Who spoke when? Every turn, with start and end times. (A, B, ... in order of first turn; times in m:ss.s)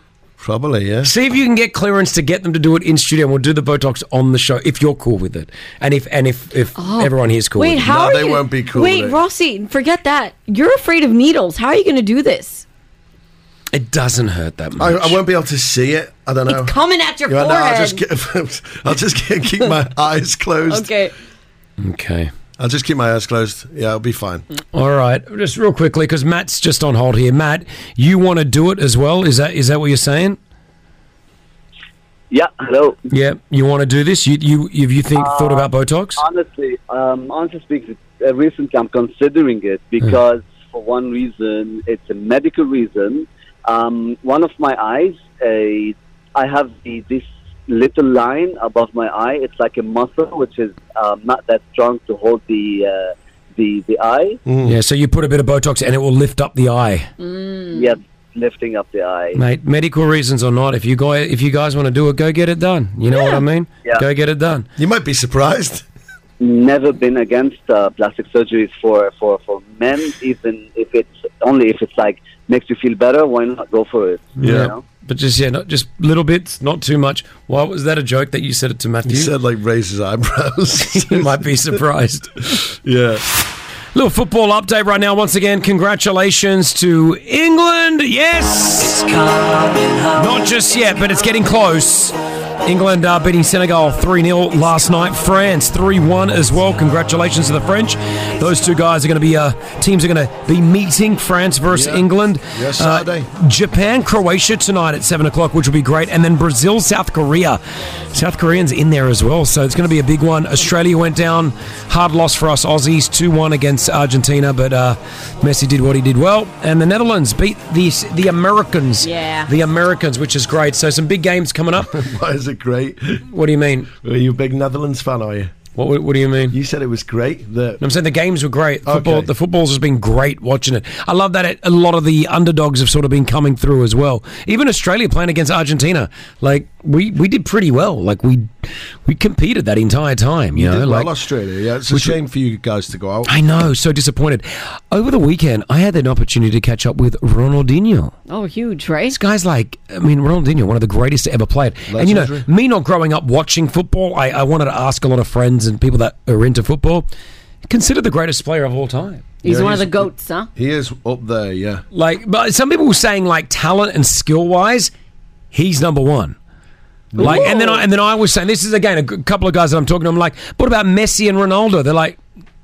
0:00.4-0:01.1 A
0:01.0-0:07.9 B
0:06.8-0:12.6 C
0:07.8-0:09.2 A
0:13.7-0:15.2 B
0:14.8-0:16.7 A
0:16.5-0:18.0 C
0:17.3-0:20.9 A
0:20.7-0:21.1 C
0:21.8-0:22.3 B
0:22.6-0:24.4 A
0:24.7-0:30.4 B
0:32.3-0:33.0 D
0:33.1-0:36.2 B
0:35.1-0:54.4 D
0:54.4-0:54.8 A
0:54.6-0:57.1 B
0:57.2-0:57.9 C
0:57.7-0:59.4 D
0:59.4-1:04.7 B
1:03.1-1:03.4 C
1:04.8-1:05.8 A
1:06.4-1:14.8 D
1:14.4-1:14.7 A
1:14.4-1:19.3 B
1:19.1-1:21.5 A
1:20.8-1:22.3 B
1:22.5-1:23.2 A
1:23.9-1:29.3 B
1:30.1-1:47.6 B
1:41.7-1:43.3 A
1:48.1-2:01.9 B
1:59.0-1:59.5 C
2:01.9-2:03.2 A
2:03.3-2:03.9 B
2:04.0-2:05.5 A
2:05.8-2:06.6 B
2:06.5-2:07.8 A
2:07.8-2:18.5 B
2:08.8-2:09.3 A
2:19.0-2:21.1 B
2:20.5-2:23.4 A
2:21.9-2:22.2 B
2:23.2-2:28.1 B
2:28.3-2:29.2 C
2:29.1-2:37.1 B
2:31.9-2:32.4 A
2:37.7-2:39.3 B
2:39.4-2:40.5 C
2:39.4-2:41.8 A
2:41.9-2:44.9 B
2:45.5-2:46.3 B
2:47.1-2:47.5 A
2:47.2-2:47.8 C
2:47.2-2:52.2 B